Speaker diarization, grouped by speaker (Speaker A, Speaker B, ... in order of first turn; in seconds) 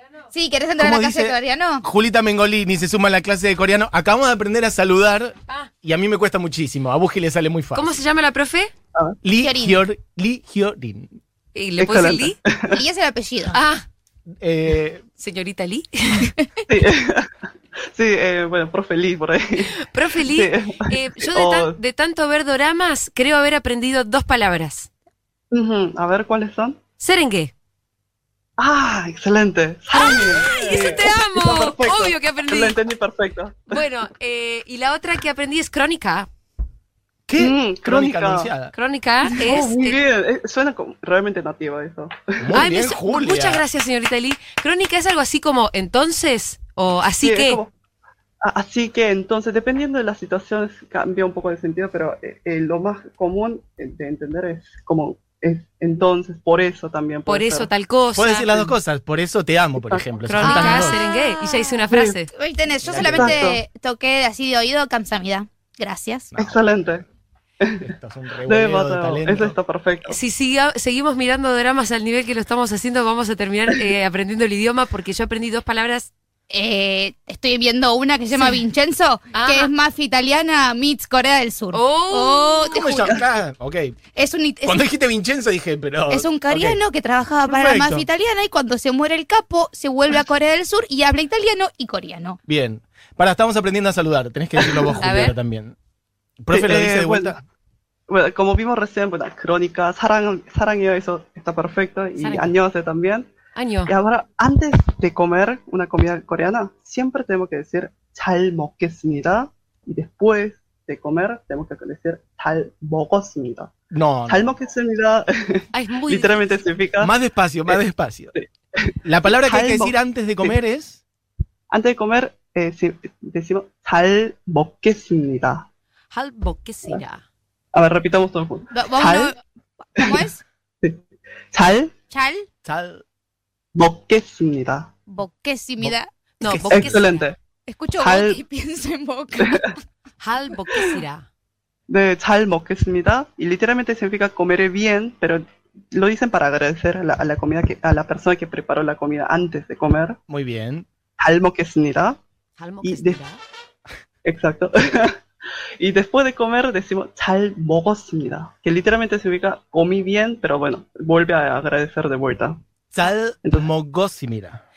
Speaker A: 0.3-1.8, 9.4-9.8, 12.7-13.6, 60.4-61.8, 62.3-66.3, 76.5-83.2, 84.2-84.9, 86.1-92.4, 128.7-129.4, 129.9-130.4, 132.1-132.5, 135.1-136.1, 137.7-139.8
Speaker B: 0.8-8.0, 9.2-11.2, 14.4-15.0, 37.3-38.7, 42.4-43.6, 58.1-61.0, 62.8-63.4, 67.8-69.5, 82.7-84.0, 84.6-86.8, 87.5-88.1, 92.5-95.8, 96.4-97.4, 113.9-114.5, 117.0-118.3, 119.0-121.0, 132.7-133.0, 135.8-137.1, 150.3-150.9, 162.9-164.6
Speaker C: 7.7-8.7, 11.6-12.4, 13.5-13.8, 15.2-16.4, 19.8-24.9, 27.0-27.5, 29.9-32.8, 33.7-36.3, 38.7-40.0, 42.5-47.6, 57.3-58.7, 60.3-62.3, 70.1-76.1, 78.3-78.6, 79.3-79.7, 81.7-82.8, 95.0-95.3, 102.2-102.5, 103.5-103.9, 115.7-116.7, 126.1-127.2, 136.4-137.3, 140.2-141.3, 152.6-153.4
Speaker D: 11.8-12.8, 16.7-19.7, 20.2-21.8, 25.5-26.8, 28.6-33.9, 37.4-38.5, 39.2-42.7, 47.2-47.7, 48.4-57.7, 59.8-60.1, 61.9-62.2, 62.9-63.6, 66.4-67.0, 67.6-67.9, 68.5-70.2, 94.6-95.0, 96.5-97.4, 98.1-103.3, 103.9-113.7, 114.3-117.1, 118.3-120.6, 121.7-125.7, 127.7-129.3, 130.0-130.2, 131.5-131.9, 133.7-134.9, 136.7-137.4, 138.0-138.4, 139.4-139.7, 141.9-150.2, 151.2-152.2, 152.8-153.2, 154.2-155.2, 155.8-162.6, 163.4-163.7